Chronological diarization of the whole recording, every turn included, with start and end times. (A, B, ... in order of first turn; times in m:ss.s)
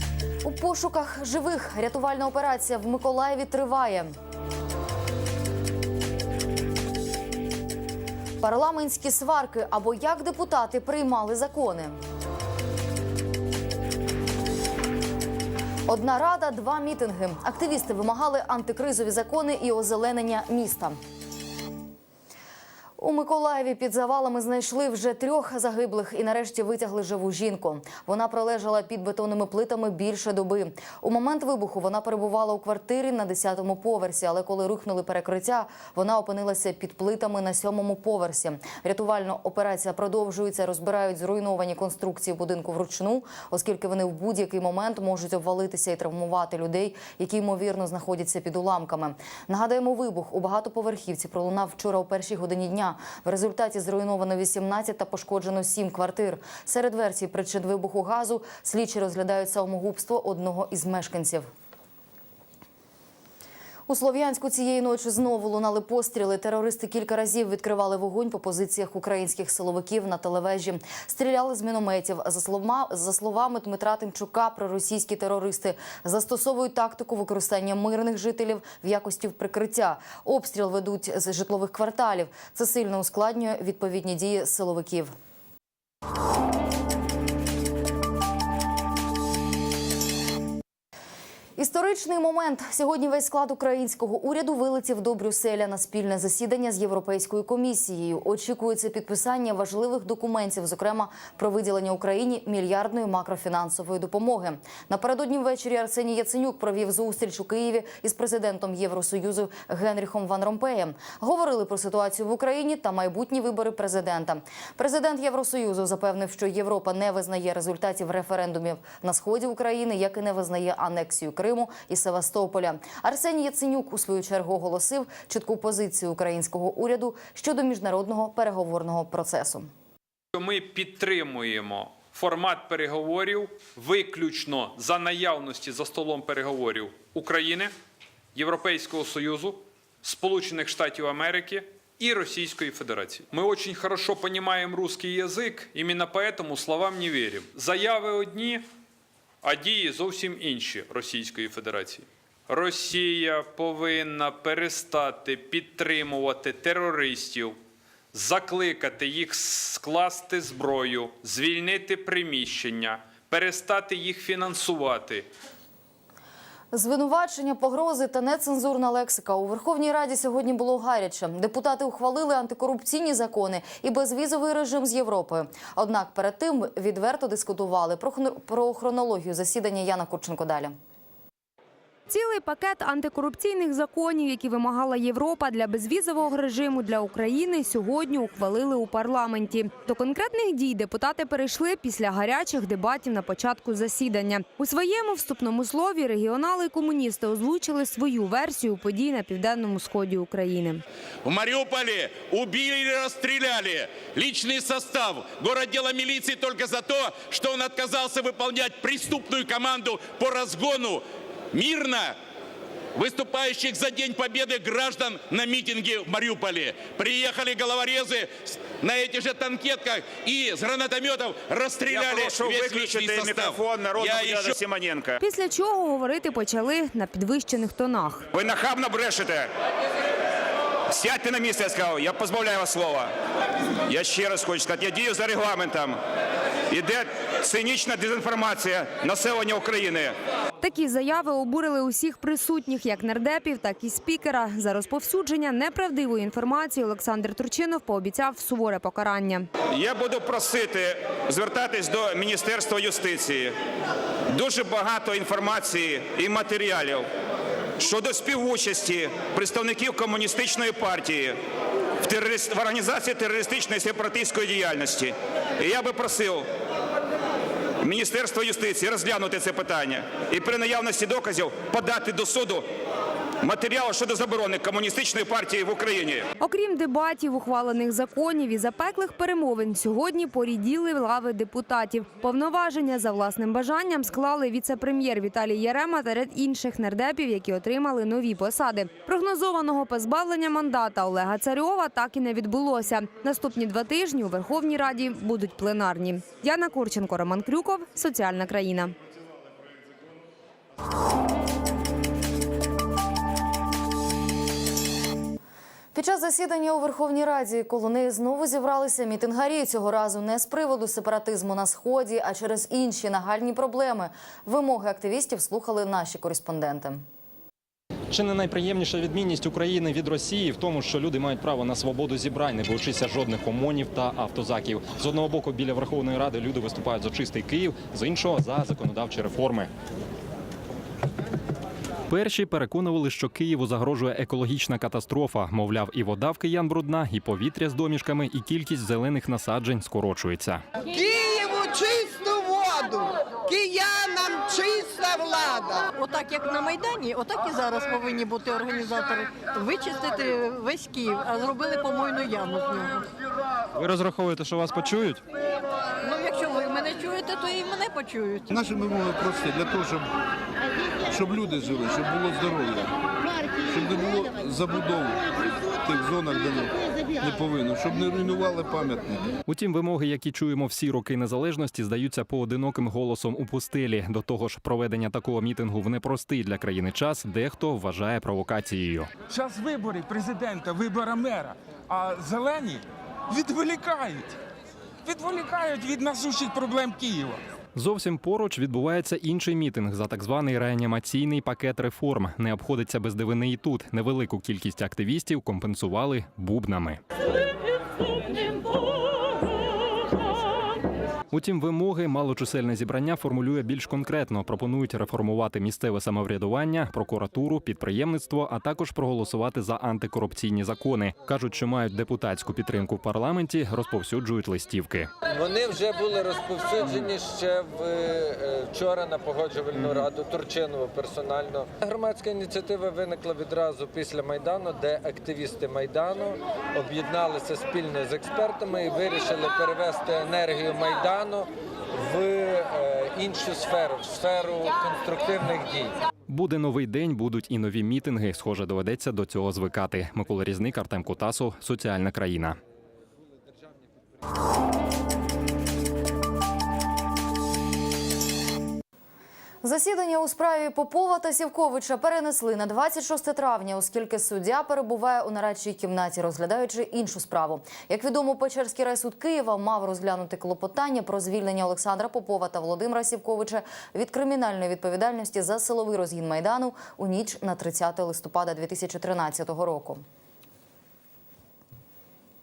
0:00.4-0:04.1 A
0:08.4-0:12.0 A
0:15.9-0:21.0 A
0:23.0-1:01.5 A
1:03.9-1:25.1 A
1:31.6-2:09.7 A
2:10.4-2:17.7 B
2:18.4-2:28.6 B
2:29.4-2:37.6 B
2:38.1-2:45.3 B
2:46.7-3:00.7 A
3:02.1-3:20.8 C
3:21.2-3:32.2 D
3:33.0-3:44.6 D
3:41.9-3:45.2 E
3:45.2-3:48.2 C
3:48.3-3:49.5 E
3:50.9-3:53.1 E
3:53.8-3:56.0 E
3:56.7-4:00.1 E
4:00.6-4:09.5 C
4:09.7-4:13.5 E
4:14.3-4:17.1 E
4:17.8-4:21.4 E
4:22.0-4:26.5 E
4:27.8-4:32.7 E
4:33.4-4:36.3 E
4:36.4-4:59.0 C
5:05.9-5:17.0 A
5:18.1-5:29.7 F
5:32.1-5:40.6 F
5:40.9-5:45.8 G
5:46.0-5:53.1 H
5:53.8-5:55.2 F
5:56.0-5:58.5 H
5:58.5-6:00.1 I
6:01.1-6:02.9 I
6:03.6-6:09.3 I
6:09.5-6:19.1 F
6:19.3-6:24.4 J
6:25.0-6:27.4 J
6:27.8-6:37.0 F
6:41.3-6:55.1 F
6:55.3-7:16.0 K
7:16.3-7:22.6 F
7:29.6-7:50.0 A